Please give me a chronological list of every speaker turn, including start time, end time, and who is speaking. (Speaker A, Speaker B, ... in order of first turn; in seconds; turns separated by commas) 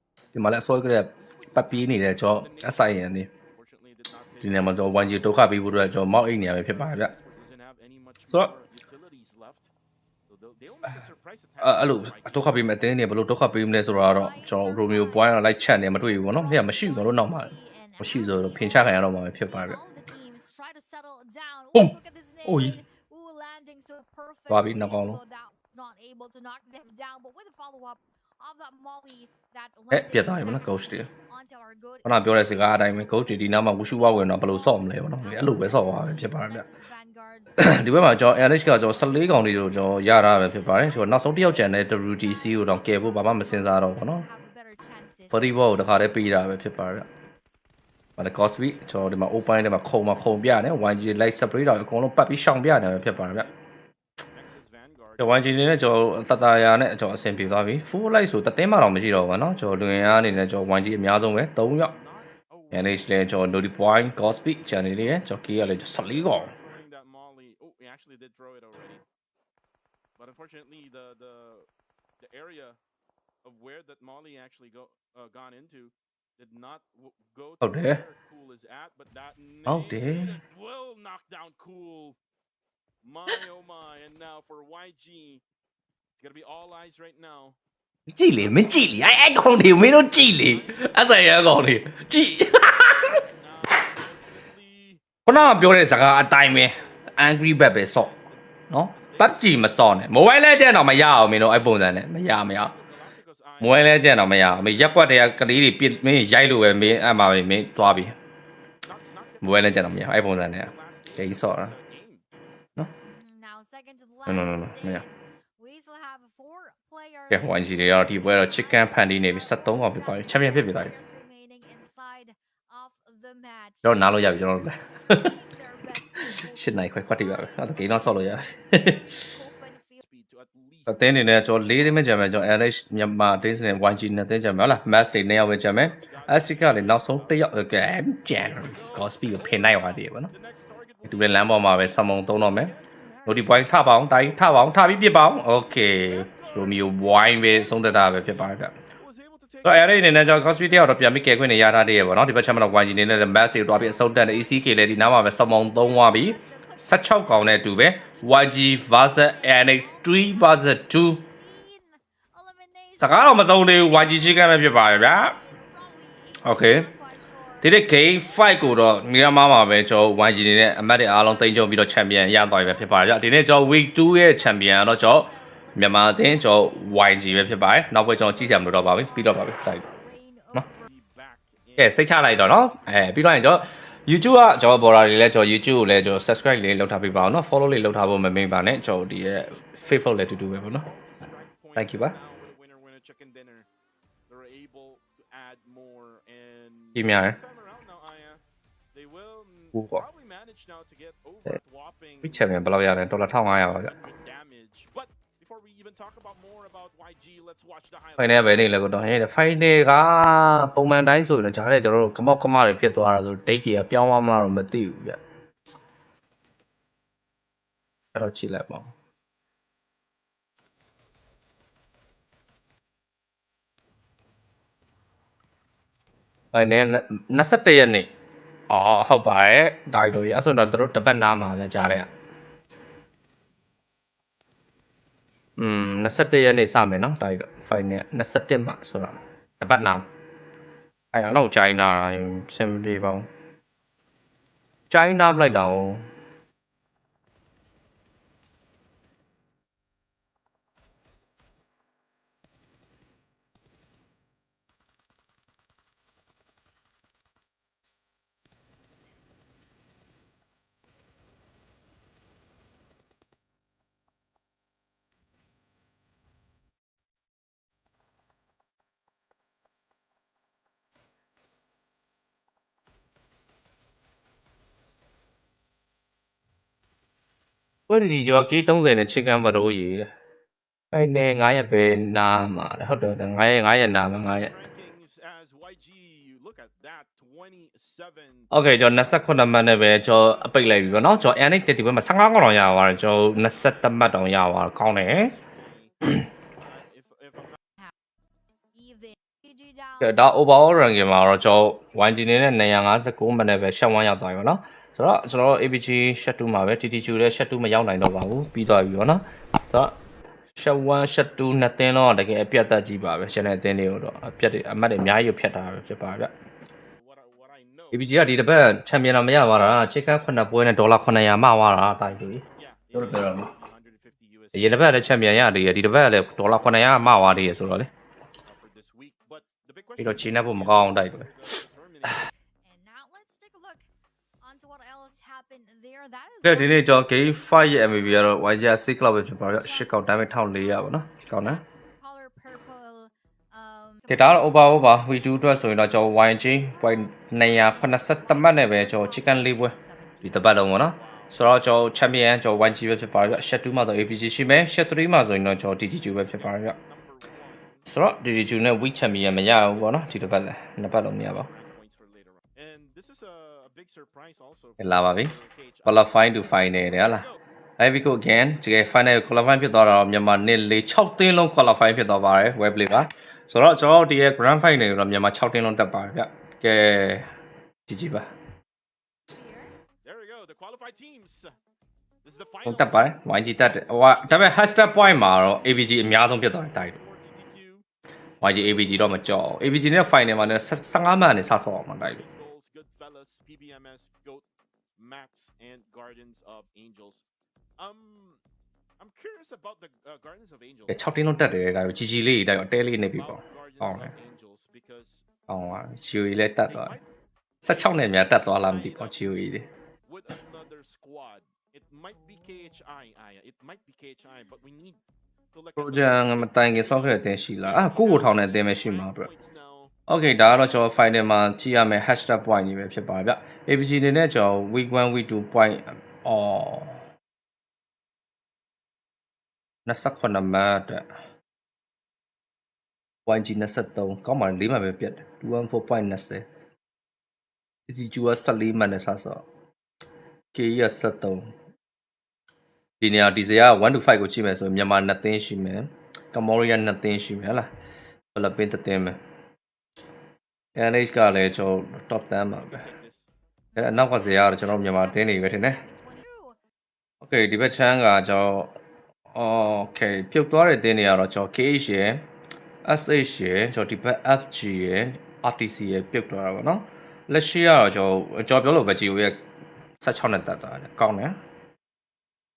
Speaker A: 0.3-3.3, Speaker B: 1.1-9.7, Speaker A: 4.4-7.1, Speaker B: 10.3-12.7, Speaker A: 11.6-19.8, Speaker C: 13.9-46.4, Speaker A: 21.7-22.8, Speaker A: 24.5-25.2, Speaker A: 29.9-31.1, Speaker A: 32.0-36.6, Speaker A: 37.6-44.2, Speaker A: 45.3-47.1, Speaker A: 48.2-53.5, Speaker B: 52.8-53.6, Speaker B: 54.3-55.7, Speaker A: 55.2-61.9, Speaker B: 61.8-64.4, Speaker A: 62.7-66.5, Speaker B: 65.7-69.0, Speaker B: 70.2-71.7, Speaker B: 72.2-72.8, Speaker B: 73.4-82.2, Speaker A: 77.6-78.0, Speaker A: 79.7-80.4, Speaker B: 83.0-85.4, Speaker B: 86.2-87.6, Speaker A: 88.1-93.2, Speaker B: 88.3-90.9, Speaker B: 93.0-99.7, Speaker A: 95.2-98.1, Speaker A: 98.7-102.7, Speaker B: 102.5-107.1, Speaker A: 103.6-108.2, Speaker B: 108.8-112.2, Speaker A: 109.4-111.7, Speaker C: 113.0-130.0, Speaker A: 114.3-115.0, Speaker A: 117.3-120.9, Speaker A: 123.8-125.3, Speaker A: 126.2-129.1, Speaker B: 130.0-132.3, Speaker A: 130.9-140.3, Speaker B: 134.6-137.6, Speaker B: 138.2-144.9, Speaker A: 141.0-142.7, Speaker A: 143.2-148.7, Speaker B: 146.0-151.4, Speaker A: 149.6-161.2, Speaker C: 153.9-155.0, Speaker C: 155.6-177.2, Speaker A: 163.0-165.4, Speaker A: 166.4-166.9, Speaker A: 167.6-179.8, Speaker C: 178.0-180.8, Speaker B: 180.8-182.1, Speaker A: 181.8-190.9, Speaker B: 188.4-193.7, Speaker A: 191.8-192.2, Speaker B: 194.3-208.7, Speaker A: 196.9-197.4, Speaker A: 199.7-200.0, Speaker A: 202.2-203.9, Speaker A: 208.2-215.2, Speaker A: 218.1-218.9, Speaker A: 226.5-228.1, Speaker A: 228.7-232.1, Speaker A: 235.6-240.1, Speaker A: 241.1-243.3, Speaker A: 244.9-246.1, Speaker A: 277.9-280.1, Speaker A: 280.9-284.5, Speaker B: 284.1-291.7, Speaker A: 288.5-295.3, Speaker B: 293.0-297.6, Speaker C: 298.7-300.1, Speaker A: 300.0-310.0, Speaker A: 310.5-316.3, Speaker B: 316.9-318.2, Speaker A: 317.9-323.5, Speaker B: 322.4-325.5, Speaker A: 324.5-327.9, Speaker B: 326.3-327.9, Speaker B: 328.4-332.3, Speaker A: 330.0-331.3, Speaker C: 332.6-333.9, Speaker C: 334.4-338.5, Speaker A: 336.4-341.6, Speaker C: 339.2-345.9, Speaker A: 344.1-356.8, Speaker C: 346.6-350.5, Speaker B: 350.6-351.4, Speaker B: 356.3-357.9, Speaker A: 357.9-361.5, Speaker B: 359.3-360.5, Speaker B: 361.2-367.4, Speaker A: 364.8-367.2, Speaker A: 367.8-377.3, Speaker A: 377.9-378.3, Speaker C: 379.3-379.7, Speaker B: 380.0-381.6, Speaker B: 382.2-383.2, Speaker A: 382.6-387.0, Speaker B: 384.4-384.7, Speaker B: 385.3-387.9, Speaker A: 388.4-392.2, Speaker B: 392.1-397.2, Speaker B: 397.8-398.4, Speaker B: 399.0-401.0, Speaker A: 400.9-404.1, Speaker B: 403.1-405.3, Speaker A: 405.5-407.0, Speaker B: 406.6-407.1, Speaker A: 407.6-409.6, Speaker B: 407.6-409.2, Speaker B: 410.1-415.0, Speaker B: 415.5-419.9, Speaker A: 415.8-419.3, Speaker A: 420.1-427.0, Speaker A: 429.9-431.1, Speaker A: 433.2-436.4, Speaker A: 437.9-439.4, Speaker A: 440.5-441.5, Speaker A: 443.0-447.7, Speaker A: 448.3-449.2, Speaker A: 450.7-452.8, Speaker B: 452.5-453.3, Speaker C: 453.7-456.6, Speaker A: 453.8-455.8, Speaker A: 457.2-458.7, Speaker A: 459.3-462.3, Speaker A: 462.8-469.4, Speaker A: 470.0-471.4